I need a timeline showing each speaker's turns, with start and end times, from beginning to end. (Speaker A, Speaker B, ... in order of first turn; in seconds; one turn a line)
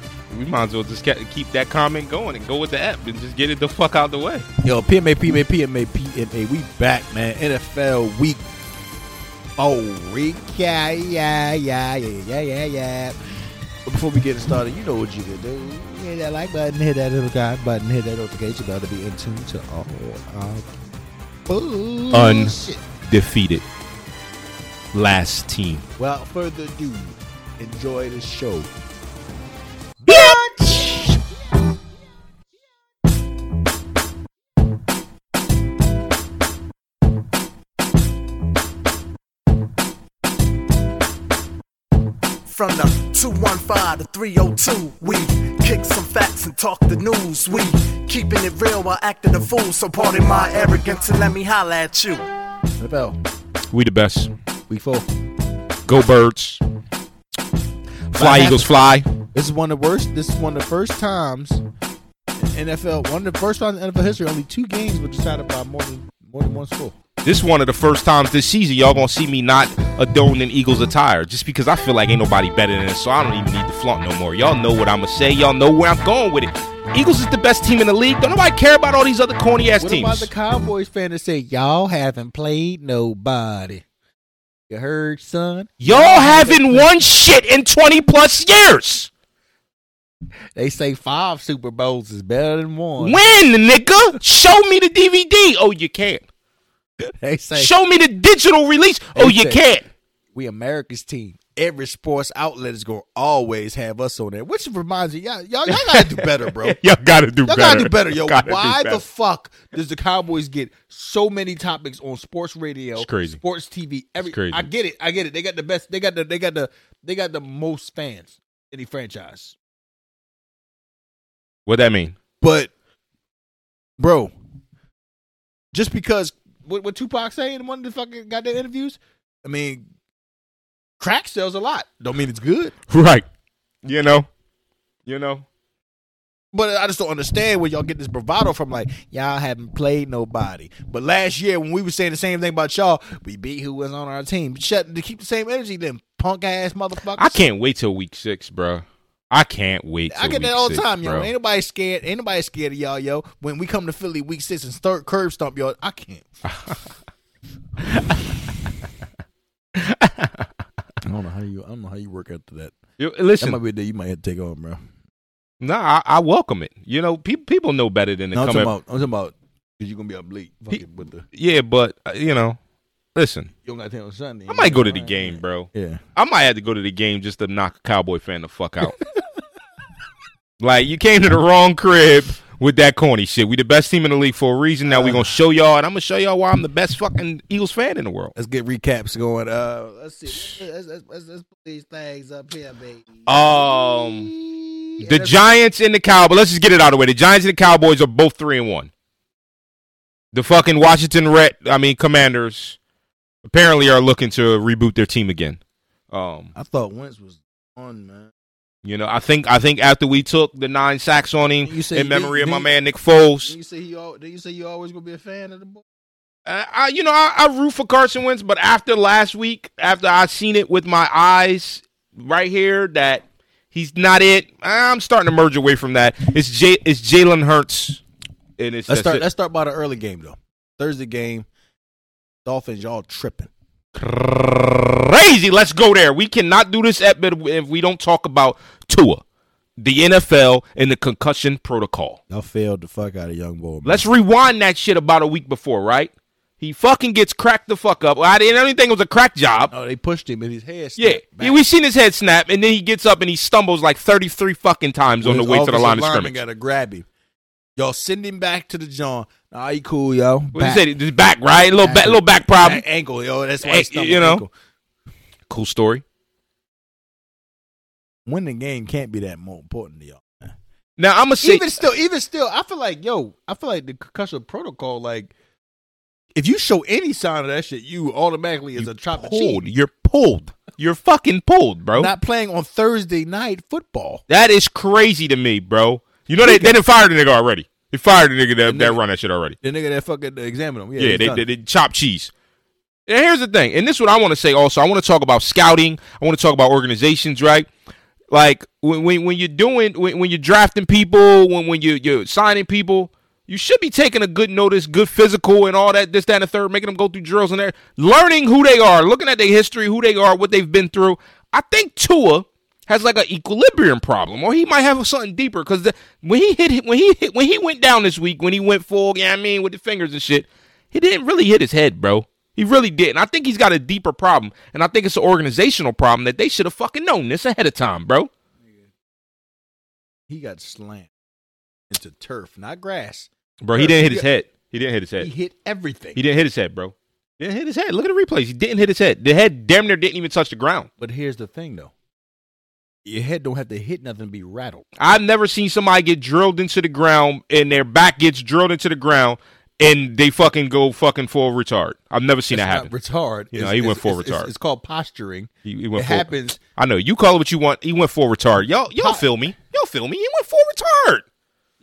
Speaker A: 0.3-4.5
Speaker B: 4.6-8.4
Speaker B: 9.6-13.2
Speaker B: 13.9-20.7
Speaker B: 21.5-22.8
Speaker A: 22.1-22.6
Speaker A: 23.1-23.6
Speaker A: 24.9-25.8
Speaker B: 26.0-28.7
Speaker B: 30.0-31.2
Speaker A: 30.1-31.0
Speaker C: 42.5-52.2
Speaker B: 52.8-53.2
Speaker A: 53.7-54.3
Speaker B: 54.7-55.1
Speaker A: 55.9-56.6
Speaker A: 58.1-59.1
Speaker B: 58.1-58.7
Speaker B: 59.3-61.6
Speaker B: 62.4-67.0
Speaker A: 67.2-80.3
Speaker B: 79.8-83.8
Speaker B: 84.7-86.9
Speaker A: 85.8-89.1
Speaker B: 90.5-93.2
Speaker A: 93.0-96.2
Speaker B: 97.0-97.7
Speaker A: 97.6-99.9
Speaker B: 99.1-99.7
Speaker B: 100.3-106.8
Speaker A: 105.7-109.0
Speaker B: 107.5-119.6
Speaker A: 113.0-113.4
Speaker A: 114.2-114.7
Speaker A: 121.7-122.2
Speaker B: 122.4-122.7
Speaker B: 124.0-124.3
Speaker B: 125.7-129.8
Speaker B: 131.0-132.7
Speaker A: 132.9-133.2
Speaker A: 133.8-134.3
Speaker A: 135.1-135.4
Speaker B: 136.5-147.4
Speaker A: 147.2-151.3
Speaker B: 150.1-156.3
Speaker A: 156.5-156.8
Speaker A: 157.9-158.7
Speaker A: 159.8-160.5
Speaker B: 161.1-162.8
Speaker A: 163.0-163.6
Speaker B: 163.4-164.8
Speaker A: 165.6-168.7
Speaker B: 168.3-171.3
Speaker A: 170.7-172.6
Speaker A: 173.2-173.5
Speaker B: 173.7-176.0
Speaker A: 174.5-179.0
Speaker A: 180.6-188.3
Speaker B: 184.8-185.3
Speaker B: 188.3-195.4
Speaker A: 193.3-194.3
Speaker A: 195.0-198.9
Speaker A: 200.3-202.8
Speaker A: 203.4-205.6
Speaker A: 206.1-206.5
Speaker B: 206.6-208.3
Speaker A: 208.8-213.6
Speaker B: 211.6-212.7
Speaker B: 213.4-215.8
Speaker A: 216.5-228.0
Speaker A: 228.6-229.2
Speaker B: 228.9-231.5
Speaker B: 232.4-233.5
Speaker A: 234.0-239.2
Speaker A: 239.8-242.2
Speaker B: 242.3-244.1
Speaker A: 243.8-249.7
Speaker B: 249.7-251.6
Speaker A: 251.0-256.4
Speaker B: 255.2-257.1
Speaker B: 257.8-260.8
Speaker A: 260.5-262.8
Speaker B: 261.8-264.5
Speaker A: 263.6-264.4
Speaker A: 265.5-266.0
Speaker B: 268.3-270.5
Speaker A: 271.0-271.7
Speaker B: 271.4-275.3
Speaker B: 276.4-279.6
Speaker A: 278.8-282.1
Speaker B: 281.9-284.2
Speaker A: 284.3-289.6
Speaker B: 286.4-286.8
Speaker B: 288.7-289.0
Speaker B: 289.6-291.5
Speaker A: 291.0-292.3
Speaker A: 293.1-297.7
Speaker A: 298.3-328.3
Speaker B: 330.3-331.1
Speaker B: 331.9-334.3
Speaker A: 333.6-335.3
Speaker B: 335.2-336.2
Speaker A: 336.2-340.9
Speaker B: 341.0-341.9
Speaker B: 343.1-344.9
Speaker A: 345.0-352.9
Speaker B: 352.5-356.6
Speaker A: 353.5-354.5
Speaker A: 355.6-361.2
Speaker B: 359.0-359.3